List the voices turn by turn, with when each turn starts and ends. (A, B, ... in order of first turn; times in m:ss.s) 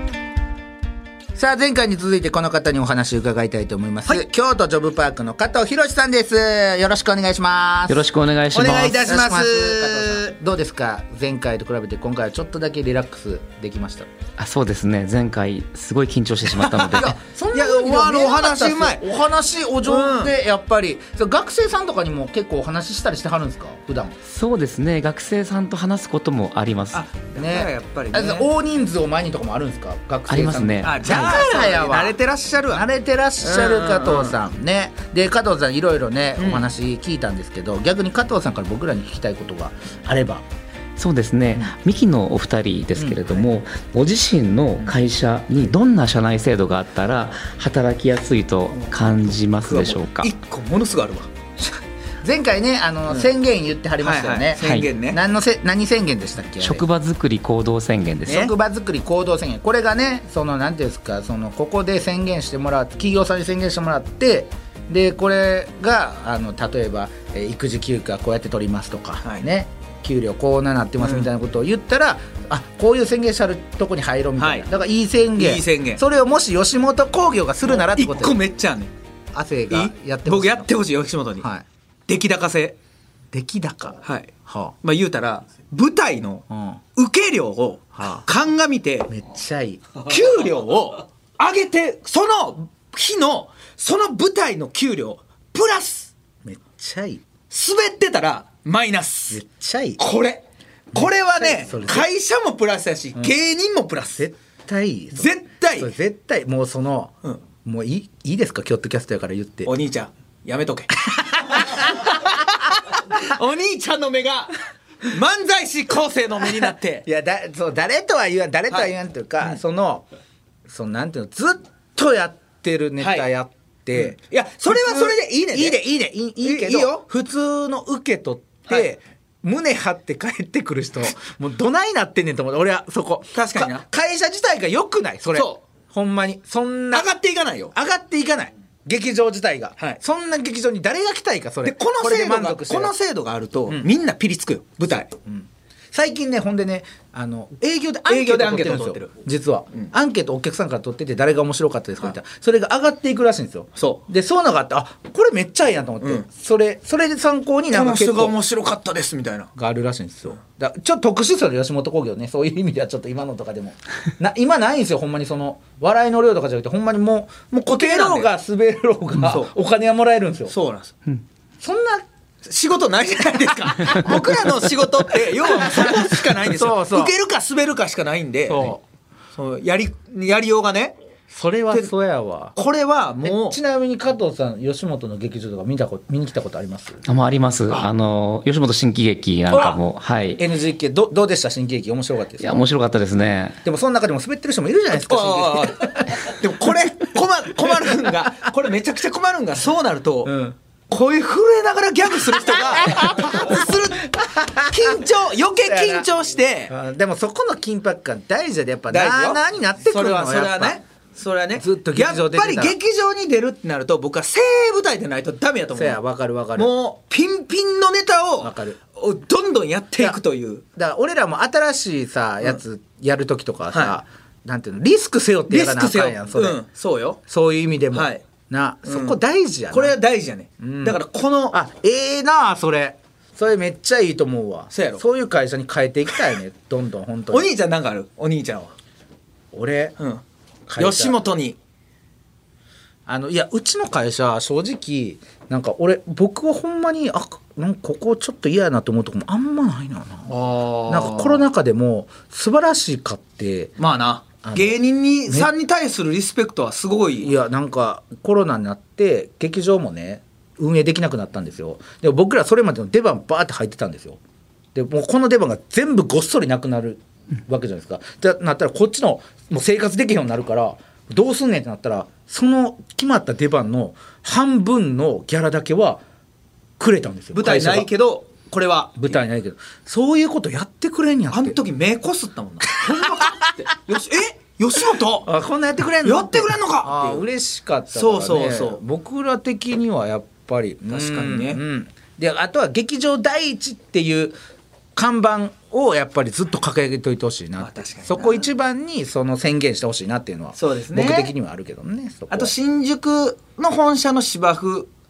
0:01.3-0:14.1 A
0:07.9-0:09.1 B
0:08.5-0:10.3 C
0:14.4-0:17.1 B
0:16.9-0:24.1 A
0:16.9-0:19.0 C
0:19.8-0:20.3 C
0:24.2-0:27.0 B
0:26.9-0:28.5 C
0:27.3-0:32.2 A
0:30.3-0:31.3 B
0:30.8-0:32.9 C
0:32.7-0:40.4 A
0:33.4-0:34.4 C
0:36.4-0:36.6 C
0:41.0-0:50.3 B
0:43.0-0:43.5 A
0:48.7-0:49.0 C
0:49.6-0:51.3 C
0:51.6-0:56.8 A
0:54.0-0:55.2 C
0:54.6-0:54.9 B
0:56.6-0:58.4 B
0:58.2-1:18.4 A
0:58.3-0:58.5 C
1:11.0-1:11.3 C
1:14.4-1:14.6 C
1:15.4-1:16.0 C
1:17.7-1:18.9 C
1:19.3-1:20.7 A
1:19.7-1:21.5 C
1:21.4-1:21.6 A
1:22.1-1:22.8 C
1:23.3-1:24.7 A
1:24.0-1:26.4 C
1:26.5-1:26.8 A
1:27.0-1:29.1 C
1:28.0-1:28.2 A
1:29.1-1:30.0 A
1:30.0-1:36.1 C
1:36.4-1:37.2 A
1:37.5-1:39.4 C
1:39.3-1:40.0 A
1:40.0-1:44.2 C
1:40.9-1:42.1 A
1:44.2-1:47.1 A
1:45.1-1:45.9 C
1:47.6-1:49.7 A
1:49.6-1:57.0 C
1:51.1-1:52.2 A
1:56.4-2:00.1 A
1:58.7-1:59.6 C
2:00.6-2:17.1 A
2:03.0-2:03.3 C
2:03.9-2:05.8 C
2:06.4-2:07.0 C
2:13.3-2:13.8 C
2:15.3-2:15.6 C
2:16.9-2:17.7 C
2:17.7-2:22.9 A
2:21.6-2:25.1 C
2:25.2-2:38.4 A
2:28.0-2:29.1 C
2:33.8-2:34.0 C
2:37.7-2:39.5 C
2:39.5-2:50.5 A
2:47.5-2:48.3 C
2:49.2-2:49.5 C
2:50.5-2:50.9 C
2:51.6-2:52.0 A
2:52.4-2:58.7 C
2:53.8-2:54.2 A
2:55.3-2:57.1 A
2:58.5-2:58.8 A
2:59.4-3:01.0 C
3:01.3-3:02.6 A
3:02.6-3:03.6 C
3:03.2-3:07.0 A
3:07.0-3:10.4 B
3:09.5-3:09.8 C
3:10.4-3:12.7 A
3:12.4-3:13.6 B
3:13.6-3:16.4 A
3:15.0-3:20.3 C
3:17.7-3:18.1 A
3:20.2-3:20.6 A
3:20.9-3:26.7 C
3:22.6-3:25.1 A
3:25.6-3:26.1 A
3:26.7-3:30.8 A
3:28.9-3:36.0 C
3:31.6-3:32.8 A
3:35.7-3:36.7 A
3:36.6-3:40.6 C
3:38.4-3:38.8 A
3:40.8-3:46.6 A
3:45.5-3:47.2 C
3:47.3-3:50.0 A
3:47.9-3:48.2 C
3:48.9-3:49.2 C
3:49.7-3:51.6 C
3:50.6-3:51.0 A
3:51.5-3:57.5 A
3:54.7-3:55.0 C
3:57.3-3:58.7 C
3:59.5-4:00.0 A
4:00.7-4:01.2 A
4:00.8-4:01.6 C
4:03.0-4:10.3 A
4:10.3-4:11.4 C
4:10.9-4:13.8 A
4:13.8-4:17.4 C
4:14.4-4:15.5 A
4:17.2-4:24.2 A
4:24.7-4:36.0 A
4:36.8-4:37.9 A
4:37.3-4:39.2 C
4:39.0-4:41.6 A
4:41.3-4:45.3 C
4:42.7-4:43.5 A
4:45.2-4:54.4 A
4:46.0-4:47.2 C
4:47.9-4:48.8 C
4:50.9-4:51.6 C
4:54.9-5:02.5 A
4:57.6-4:58.5 C
5:00.6-5:01.3 C
5:02.3-5:04.9 C